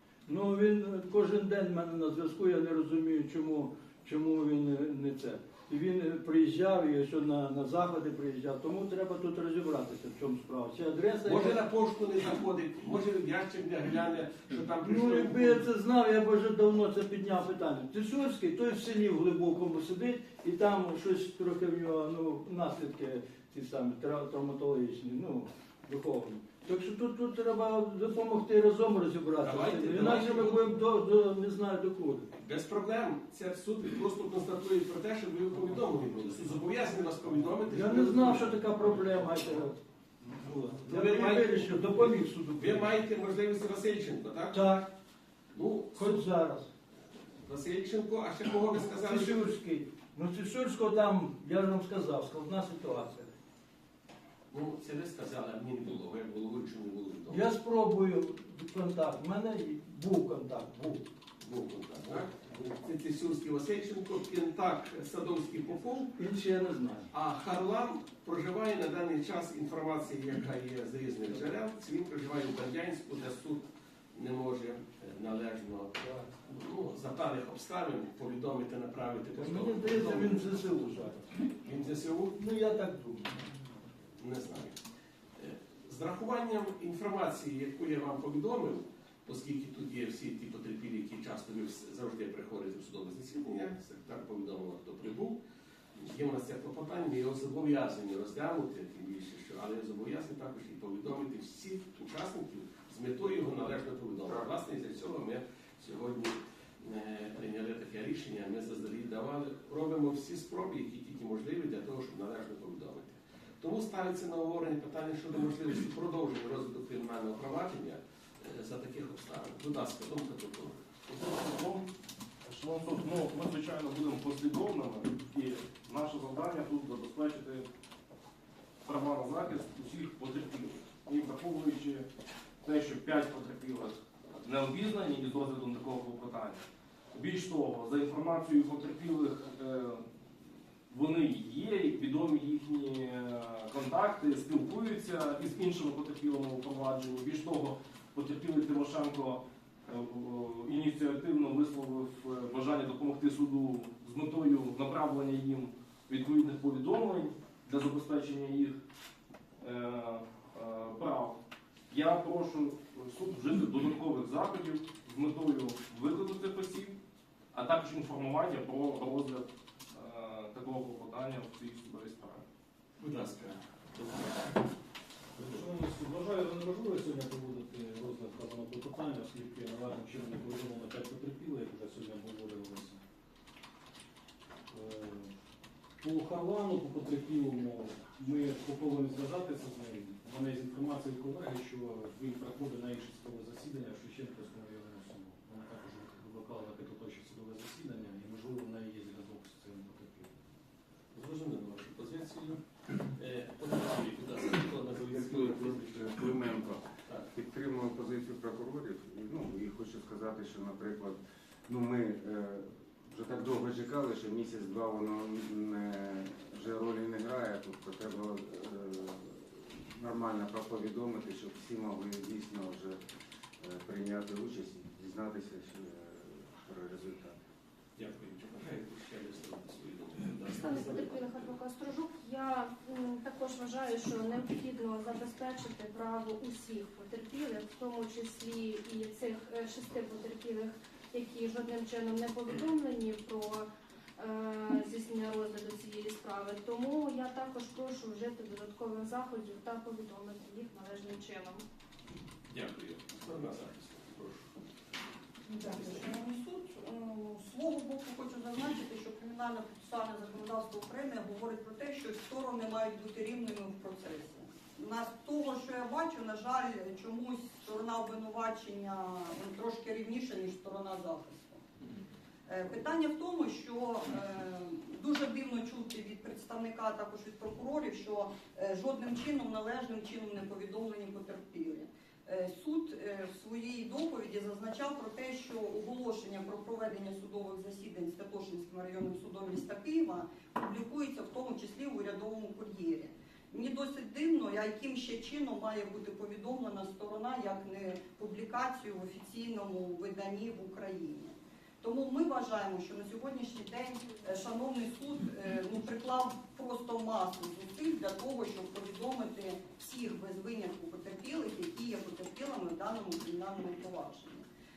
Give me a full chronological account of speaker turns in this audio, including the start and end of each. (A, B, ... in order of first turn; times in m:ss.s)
0:00.3-0:11.6 A
0:11.2-0:15.7 B
0:14.8-0:32.2 A
0:29.4-0:30.8 B
0:32.4-0:39.5 B
0:37.7-0:42.9 A
0:40.8-0:44.8 B
0:44.5-0:44.9 A
0:45.5-0:46.3 B
0:46.0-0:46.7 A
0:47.4-0:49.5 B
0:49.0-0:53.3 A
0:54.5-0:57.5 B
0:57.3-1:01.0 A
1:01.4-1:06.2 B
1:06.2-1:07.1 A
1:07.1-1:20.9 B
1:19.4-1:21.2 A
1:21.5-1:22.4 B
1:22.4-1:23.3 A
1:24.2-1:24.8 B
1:25.4-1:35.4 B
1:36.0-2:00.9 B
2:01.1-2:01.9 C
2:02.4-2:07.7 C
2:08.8-2:12.1 C
2:12.6-2:20.0 C
2:20.9-2:38.8 C
2:39.6-2:47.0 C
2:47.5-2:52.4 C
2:53.0-2:54.6 B
2:55.4-3:03.0 D
2:55.4-2:55.6 B
3:04.7-3:05.3 D
3:06.0-3:20.4 D
3:21.1-3:22.6 B
3:23.2-3:26.3 B
3:25.1-3:43.0 E
3:43.6-3:47.4 E
3:48.0-3:51.6 B
3:50.5-4:03.7 F
4:04.2-4:11.6 F
4:12.5-4:14.5 B
4:15.5-4:31.6 G
4:15.7-4:16.1 B
4:32.5-5:14.5 G